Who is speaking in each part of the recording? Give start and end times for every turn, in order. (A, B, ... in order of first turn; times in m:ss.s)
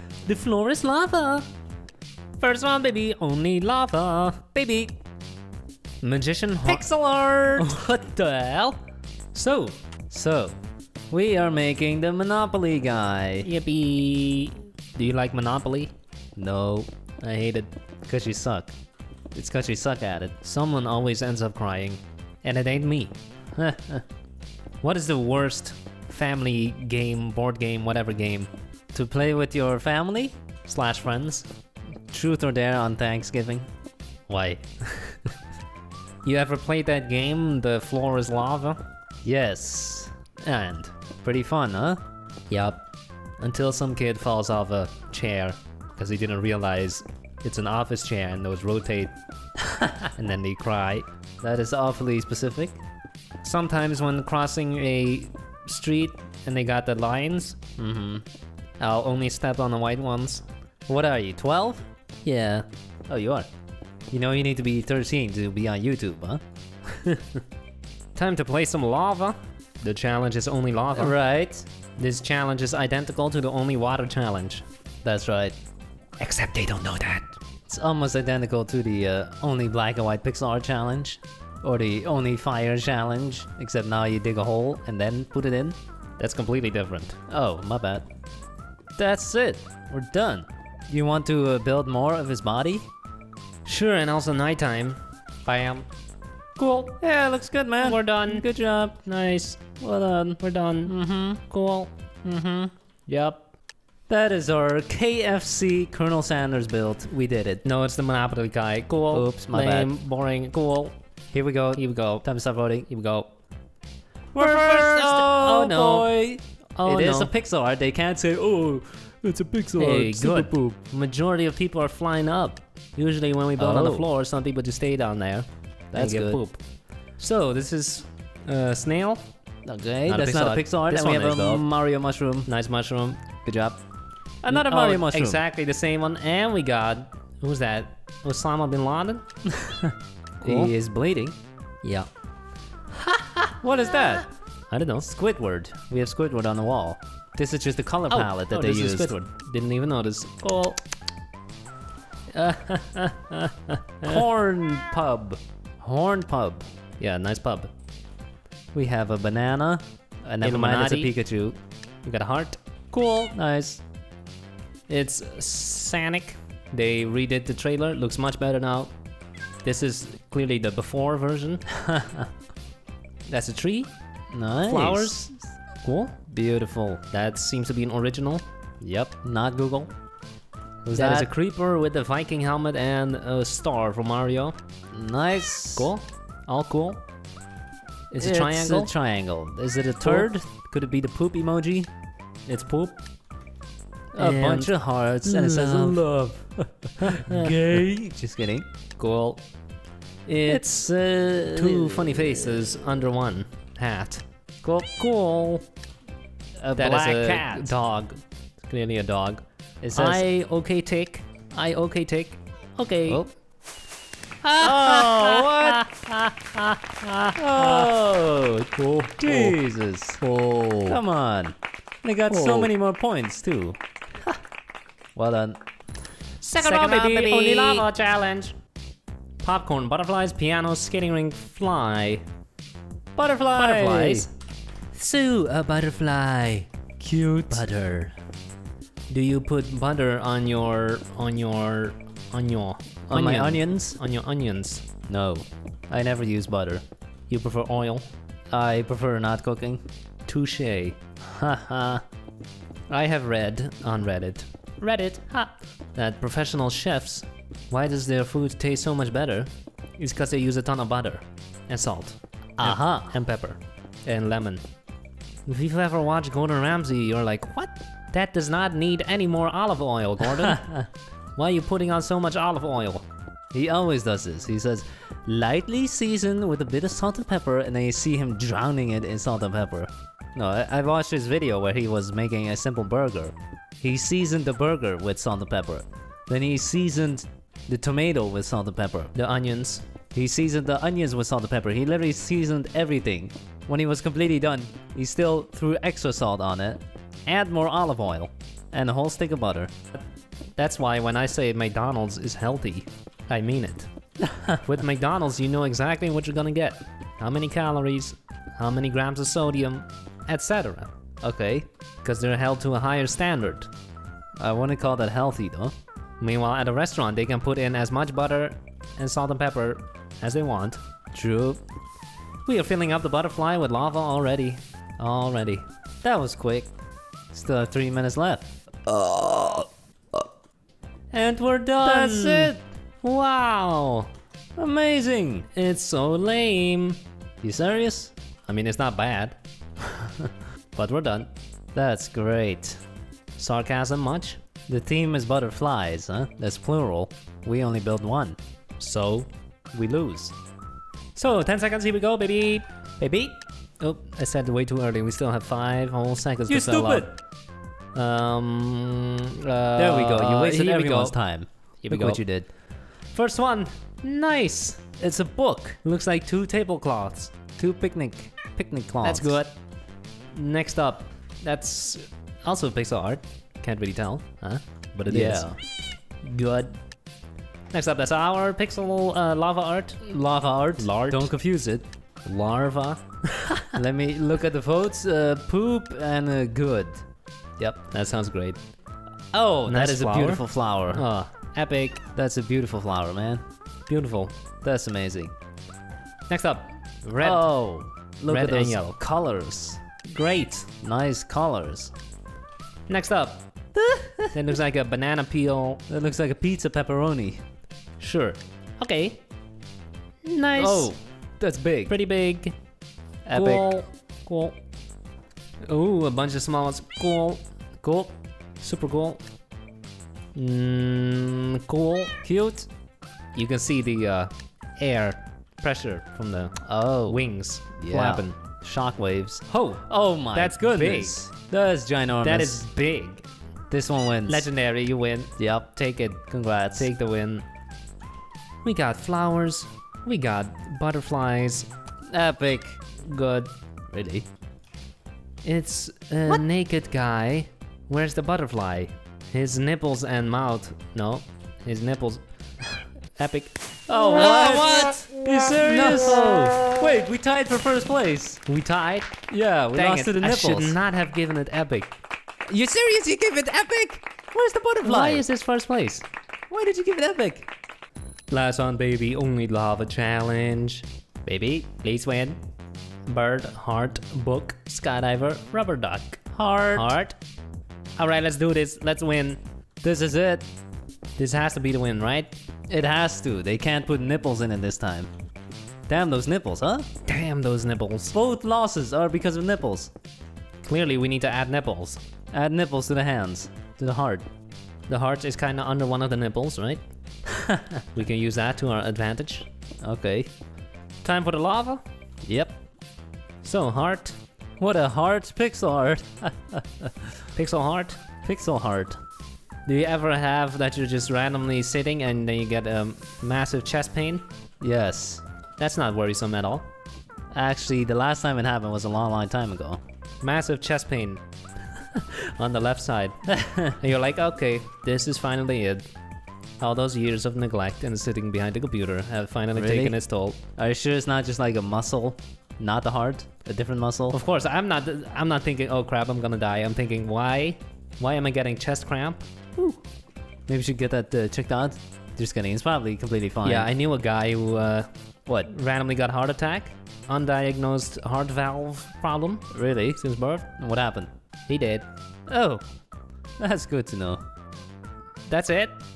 0:00.3-0:01.4 A
0:00.3-0:00.7 B
0:02.4-0:04.9 B
0:06.0-0:06.8 B
0:06.6-0:07.7 A
0:07.5-0:08.8 B
0:09.3-0:09.8 B
0:10.1-0:10.5 A
0:11.1-0:13.5 A
0:13.4-0:15.9 B
0:16.4-0:16.9 A
0:17.2-0:17.7 B
0:18.0-0:18.7 A
0:19.3-0:20.3 A
0:20.4-0:23.1 B
0:23.6-0:24.0 A
0:24.8-0:28.5 B
0:28.9-0:30.3 A
0:30.6-0:31.5 B
0:32.1-0:33.7 A
0:34.3-0:34.6 A
0:36.2-0:38.8 B
0:39.2-0:42.0 A
0:42.5-0:42.8 B
0:43.4-0:49.1 B
0:50.2-0:51.0 B
0:51.4-0:52.8 A
0:53.4-0:57.6 B
0:57.8-0:58.2 A
0:58.8-1:00.4 B
1:00.9-1:03.5 A
1:04.1-1:06.4 A
1:08.1-1:11.1 B
1:10.9-1:11.7 A
1:12.0-1:14.6 B
1:15.0-1:15.5 A
1:16.2-1:17.3 B
1:17.7-1:25.8 A
1:26.2-1:27.2 B
1:27.3-1:28.0 A
1:29.0-1:32.8 A
1:33.6-1:35.9 B
1:36.6-1:37.0 B
1:37.0-1:39.0 A
1:37.8-1:38.4 B
1:39.0-1:39.7 B
1:39.8-1:41.4 A
1:40.4-1:41.9 B
1:42.2-1:42.7 A
1:43.1-1:43.4 B
1:44.1-1:47.6 A
1:47.6-1:50.9 B
1:49.1-1:49.9 A
1:51.3-1:52.9 A
1:51.7-1:52.2 B
1:52.8-1:53.3 B
1:54.3-2:00.8 A
1:54.4-1:56.1 B
1:56.8-1:57.3 B
1:59.8-2:06.6 B
2:03.6-2:04.0 A
2:05.9-2:06.4 A
2:07.2-2:09.2 B
2:09.6-2:12.5 A
2:10.0-2:11.6 B
2:12.4-2:13.2 B
2:13.4-2:13.8 A
2:14.4-2:19.2 B
2:14.4-2:15.4 A
2:19.6-2:21.4 A
2:20.4-2:20.7 B
2:23.4-2:24.3 A
2:24.7-2:25.1 B
2:25.0-2:29.1 A
2:28.1-2:30.8 B
2:32.3-2:34.2 B
2:34.0-2:36.7 A
2:37.0-2:37.7 B
2:38.7-2:41.6 A
2:40.4-2:41.1 B
2:42.0-2:43.3 B
2:43.3-2:43.8 A
2:44.9-2:48.9 B
2:49.6-2:51.6 B
2:51.8-2:52.3 A
2:53.3-2:53.9 B
2:54.3-2:55.2 A
2:54.6-2:56.2 B
2:56.3-2:57.0 A
2:57.0-2:58.4 B
2:58.8-2:59.9 A
3:00.8-3:04.5 B
3:00.9-3:01.3 A
3:04.9-3:05.9 A
3:05.7-3:07.0 B
3:08.1-3:08.9 B
3:08.2-3:11.9 A
3:10.0-3:10.3 B
3:12.5-3:13.0 B
3:14.2-3:16.1 B
3:14.2-3:18.6 A
3:17.0-3:17.6 B
3:19.0-3:19.4 B
3:20.3-3:22.9 A
3:20.5-3:20.8 B
3:21.5-3:25.6 B
3:26.6-3:27.7 A
3:26.8-3:33.2 B
3:29.8-3:30.2 A
3:34.4-3:35.8 A
3:34.4-3:41.0 B
3:37.4-3:38.4 A
3:39.2-3:40.2 A
3:40.8-3:43.8 A
3:42.3-3:42.7 B
3:45.1-3:45.6 A
3:46.4-3:48.5 B
3:46.6-3:47.9 A
3:49.4-3:52.2 B
3:53.2-3:54.3 A
3:53.5-3:54.3 B
3:54.9-3:57.6 B
3:57.2-3:58.1 A
3:59.1-4:04.8 B
4:03.1-4:04.0 A
4:05.1-4:06.8 A
4:07.3-4:08.0 B
4:08.5-4:09.8 A
4:10.3-4:11.0 B
4:11.2-4:12.0 A
4:12.9-4:24.6 B
4:22.6-4:23.1 A
4:25.5-4:30.8 B
4:31.4-4:33.0 B
4:33.5-4:49.1 A
4:49.1-4:49.8 B
4:50.1-4:59.7 A
5:00.6-5:03.9 B
5:04.6-5:10.9 B
5:11.2-5:11.6 A
5:12.0-5:13.7 B
5:14.4-5:15.7 A
5:16.2-5:20.8 B
5:21.1-5:21.6 A
5:22.4-5:25.6 B
5:26.0-5:26.7 A
5:27.3-5:29.7 A
5:31.1-5:34.1 B
5:31.8-5:32.6 A
5:34.6-5:35.5 A
5:35.5-5:37.0 B
5:37.4-5:38.1 A
5:38.5-5:39.4 B
5:40.7-5:41.3 B
5:41.7-5:42.8 A
5:43.4-5:44.4 B
5:44.7-5:48.4 A
5:48.8-5:50.3 B
5:51.1-5:52.7 B
5:53.0-5:53.3 A
5:53.8-5:57.1 B
5:56.5-5:57.1 A
5:57.9-6:01.2 B
5:59.8-6:02.5 A
6:01.8-6:02.2 B
6:03.1-6:04.8 B
6:05.0-6:05.8 A
6:05.8-6:07.4 B
6:07.6-6:09.4 A
6:09.0-6:09.5 B
6:10.3-6:15.5 B
6:15.0-6:15.6 A
6:16.2-6:16.8 B
6:17.7-6:20.0 B
6:20.0-6:21.8 A
6:20.8-6:21.3 B
6:22.2-6:23.8 B
6:23.8-6:27.0 A
6:27.9-6:28.6 B
6:29.3-6:31.0 A
6:29.6-6:32.0 B
6:32.2-6:33.4 A
6:33.9-6:34.3 B
6:34.6-6:35.3 A
6:36.3-6:37.5 B
6:37.2-6:39.8 A
6:38.3-6:39.0 B
6:40.1-6:40.7 B
6:40.8-6:41.9 A
6:42.9-6:43.5 B
6:43.8-6:44.4 A
6:44.3-6:45.8 B
6:45.9-6:47.4 A
6:48.0-6:49.2 B
6:50.2-6:50.9 B
6:50.5-6:51.9 A
6:51.8-6:52.5 B
6:53.3-6:53.7 A
6:53.3-6:54.6 B
6:55.7-6:59.2 B
7:00.3-7:02.7 B
7:03.3-7:08.4 B
7:06.6-7:12.6 A
7:09.5-7:11.2 B
7:12.2-7:13.2 B
7:13.7-7:14.5 A
7:14.3-7:17.4 B
7:15.4-7:15.7 A
7:16.3-7:16.9 A
7:18.6-7:21.7 B
7:22.1-7:22.8 A
7:23.0-7:23.5 B
7:23.9-7:24.2 A
7:25.4-7:32.2 B
7:33.2-7:36.4 B
7:34.0-7:38.4 A
7:38.4-7:41.9 B
7:39.3-7:40.8 A
7:42.5-7:45.2 A
7:44.8-7:46.0 B
7:46.5-7:47.5 A
7:48.3-7:52.4 B
7:53.1-7:56.2 B
7:56.3-7:57.0 A
7:56.7-7:57.2 B
7:58.0-7:59.4 B
7:59.8-8:00.4 A
8:01.2-8:02.3 B
8:02.7-8:05.1 A
8:05.9-8:06.8 A
8:07.0-8:08.2 B
8:08.1-8:09.9 A
8:10.6-8:12.0 B
8:12.3-8:14.2 A
8:14.9-8:16.8 B
8:17.4-8:17.8 A
8:17.9-8:19.5 B
8:19.8-8:20.3 A
8:21.0-8:21.8 B
8:22.2-8:22.5 A
8:23.4-8:24.2 B
8:24.6-8:26.9 A
8:27.3-8:28.0 B
8:28.2-8:29.0 A
8:29.6-8:34.2 B
8:34.6-8:35.2 A
8:35.6-8:36.6 B
8:37.3-8:39.8 A
8:40.2-8:41.2 B
8:41.8-8:43.2 B
8:43.3-8:43.8 A
8:43.7-8:45.8 B
8:46.6-8:50.4 B
8:49.5-8:50.0 A
8:50.6-8:54.2 A
8:54.1-8:59.2 B
9:00.5-9:03.7 A
9:03.4-9:04.9 B
9:05.4-9:09.4 B
9:09.5-9:11.1 A
9:11.5-9:11.9 B
9:12.3-9:12.6 A
9:13.4-9:14.2 A
9:15.3-9:15.8 B